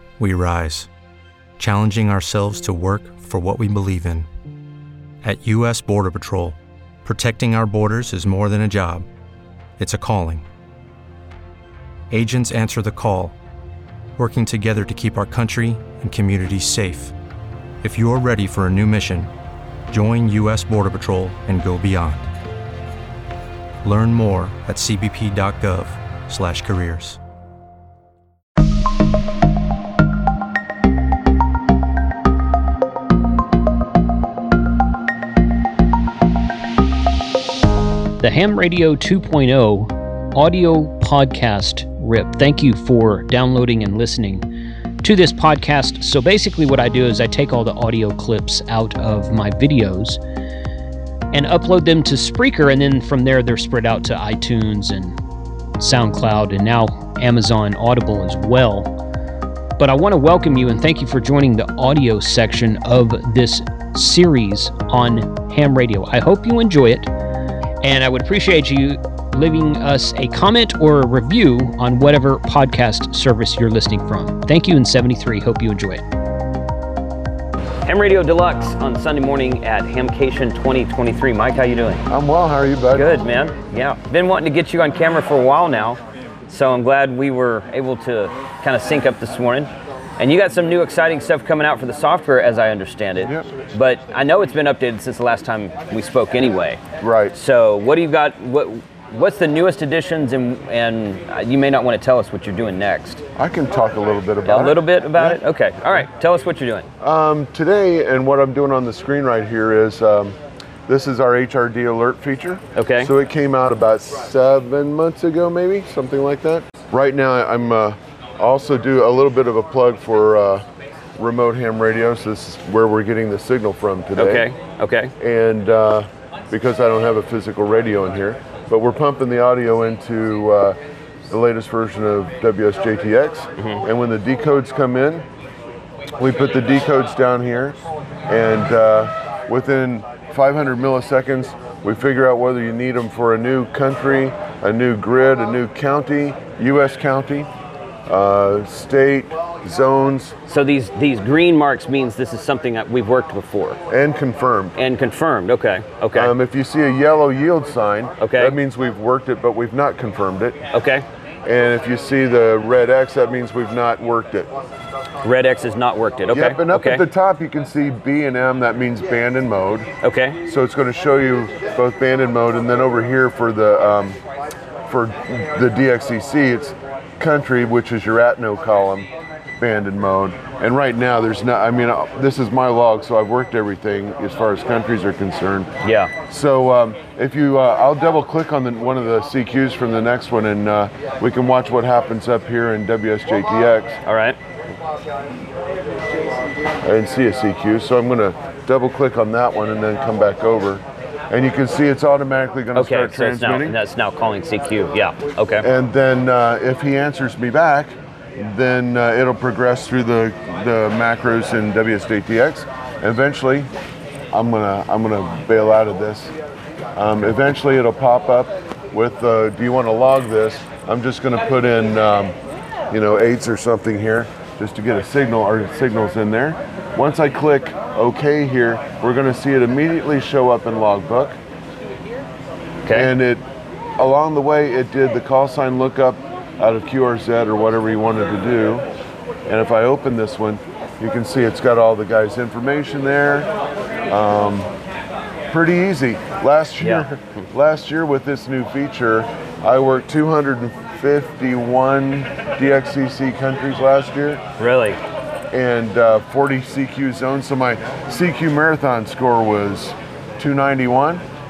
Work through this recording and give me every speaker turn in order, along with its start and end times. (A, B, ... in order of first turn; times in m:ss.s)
0:00.2-0:00.9 A
0:01.6-0:04.3 A
0:05.2-0:09.1 A
0:09.8-0:10.5 A
0:12.1-0:13.4 A
0:14.2-0:17.1 A
0:17.8-0:19.3 A
0:19.9-0:22.3 A
0:23.8-0:27.2 A
0:38.2-0:44.5 B
0:45.0-0:50.2 B
0:51.3-0:55.2 B
0:55.8-0:58.9 B
0:59.8-1:07.1 B
1:07.8-1:16.0 B
1:17.9-1:22.0 C
1:22.1-1:23.2 D
1:22.9-1:36.8 C
1:37.0-1:37.4 D
1:37.3-1:43.2 C
1:43.4-1:45.4 D
1:44.5-1:46.9 C
1:47.0-1:50.4 D
1:50.9-2:00.6 D
1:52.8-1:53.1 C
2:01.2-2:04.5 D
2:04.2-2:05.1 C
2:05.2-2:10.8 D
2:11.3-2:15.2 D
2:16.2-2:27.5 D
2:28.1-2:30.4 D
2:30.5-2:33.8 C
2:33.9-2:34.8 D
2:34.8-2:36.3 C
2:36.1-2:40.6 D
2:38.2-2:38.6 C
2:40.7-2:41.0 C
2:41.4-2:44.5 D
2:45.2-2:47.1 C
2:46.3-2:49.9 D
2:50.0-2:50.4 C
2:50.4-2:54.2 D
2:54.9-3:05.7 D
3:05.8-3:06.1 C
3:06.3-3:14.0 D
3:14.0-3:14.4 C
3:16.8-3:23.8 D
3:22.8-3:25.7 C
3:25.6-3:33.7 D
3:34.3-3:36.3 D
3:37.0-3:42.4 D
3:42.9-3:51.4 D
3:52.8-3:53.1 C
3:52.9-3:53.4 D
3:54.0-3:58.8 D
3:59.5-4:03.5 D
4:04.1-4:04.7 D
4:05.5-4:14.4 D
4:06.8-4:07.1 C
4:14.6-4:15.0 C
4:15.5-4:21.2 D